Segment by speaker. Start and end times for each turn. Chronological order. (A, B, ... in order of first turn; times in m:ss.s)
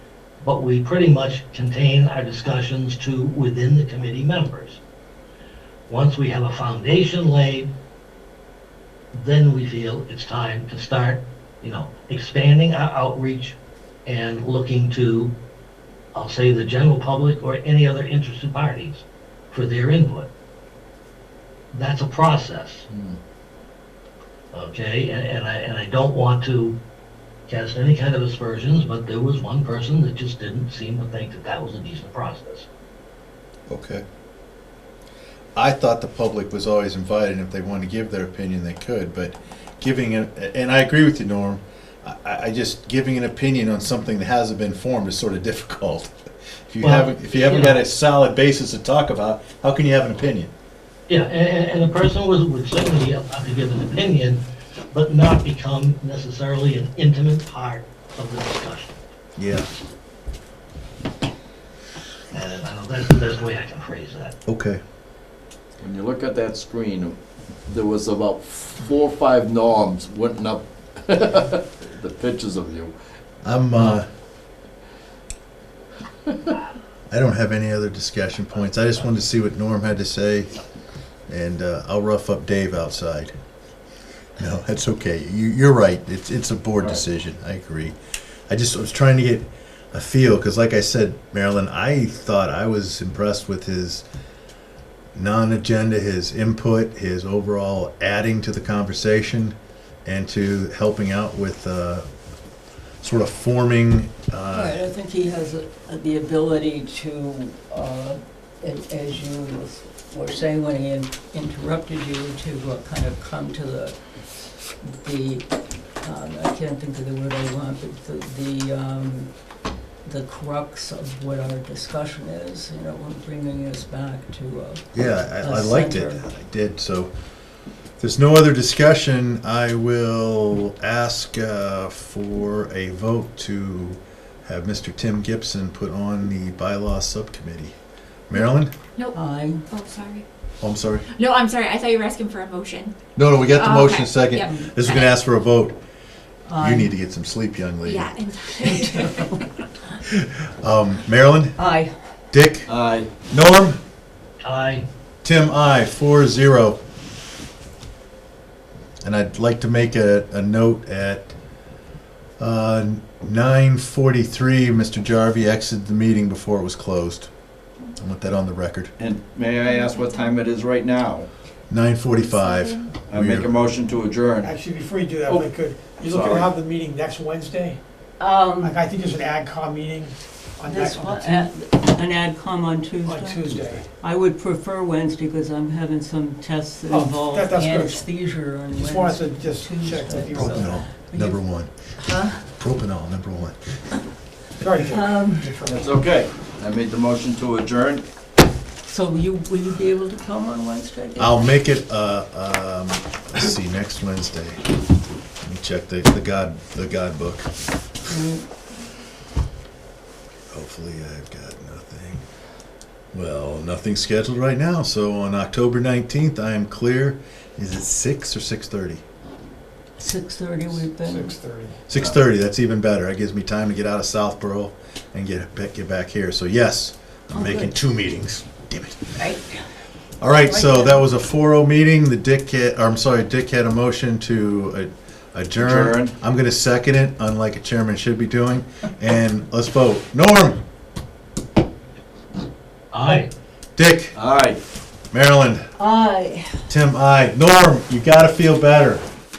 0:00.4-0:04.8 A
0:05.9-0:07.7 A
0:09.1-0:15.3 A
0:16.2-0:20.3 A
0:21.7-0:22.9 A
0:22.9-0:23.2 B
0:24.5-0:26.8 A
0:27.5-0:32.7 A
0:33.7-0:34.0 C
0:35.6-0:46.1 C
0:46.7-0:50.5 C
0:46.8-0:47.8 A
0:51.1-0:59.0 A
0:59.4-0:59.7 C
1:02.3-1:04.3 A
1:04.5-1:04.8 C
1:05.8-1:12.9 B
1:13.4-1:14.1 C
1:17.1-1:20.6 C
1:21.3-1:23.3 C
1:24.4-1:28.0 C
1:28.5-1:34.0 C
1:35.2-1:42.1 C
1:43.0-1:44.8 C
1:44.5-1:54.0 D
1:54.8-1:55.5 D
1:56.0-1:59.3 D
2:00.1-2:04.9 D
2:04.9-2:07.1 C
2:05.4-2:06.2 D
2:08.0-2:17.8 C
2:18.3-2:18.7 C
2:18.4-2:20.2 E
2:19.1-2:19.7 D
2:20.6-2:21.1 C
2:21.1-2:23.0 E
2:23.2-2:25.8 C
2:23.5-2:25.1 E
2:24.4-2:24.7 D
2:26.5-2:26.9 D
2:26.6-2:28.1 C
2:27.8-2:29.4 E
2:28.6-2:29.4 D
2:30.1-2:31.6 C
2:31.6-2:31.9 D
2:32.3-2:32.7 C
2:32.7-2:33.1 B
2:33.3-2:33.8 C
2:34.4-2:34.9 A
2:35.2-2:36.8 C
2:39.0-2:41.3 C
2:42.4-2:47.3 C
2:48.0-2:48.9 C
2:49.0-2:51.3 B
2:49.6-2:50.4 E
2:51.7-2:53.6 C
2:52.2-2:52.9 E
2:53.1-2:54.6 B
2:54.4-2:57.8 F
2:55.3-2:56.5 B
2:58.2-2:58.8 D
2:58.6-3:01.5 F
3:00.7-3:11.4 D
3:03.0-3:03.9 F
3:06.9-3:08.1 F
3:08.7-3:10.9 F
3:10.3-3:11.8 C
3:12.0-3:12.4 D
3:12.5-3:13.6 C
3:14.6-3:16.1 F
3:14.9-3:15.6 D
3:15.6-3:18.0 B
3:18.9-3:21.5 D
3:21.2-3:24.7 C
3:25.4-3:27.5 C
3:28.1-3:28.4 D
3:30.5-3:32.2 C
3:33.1-3:39.0 C
3:40.0-3:41.4 D
3:40.7-3:41.8 F
3:41.9-3:49.2 C
3:47.3-3:47.8 D
3:49.2-3:49.5 D
3:50.2-4:00.6 C
3:50.4-3:51.1 D
3:55.6-3:56.2 B
4:02.9-4:03.3 A
4:03.8-4:04.2 C
4:04.2-4:04.6 B
4:05.1-4:05.7 C
4:05.8-4:06.6 D
4:06.7-4:09.0 C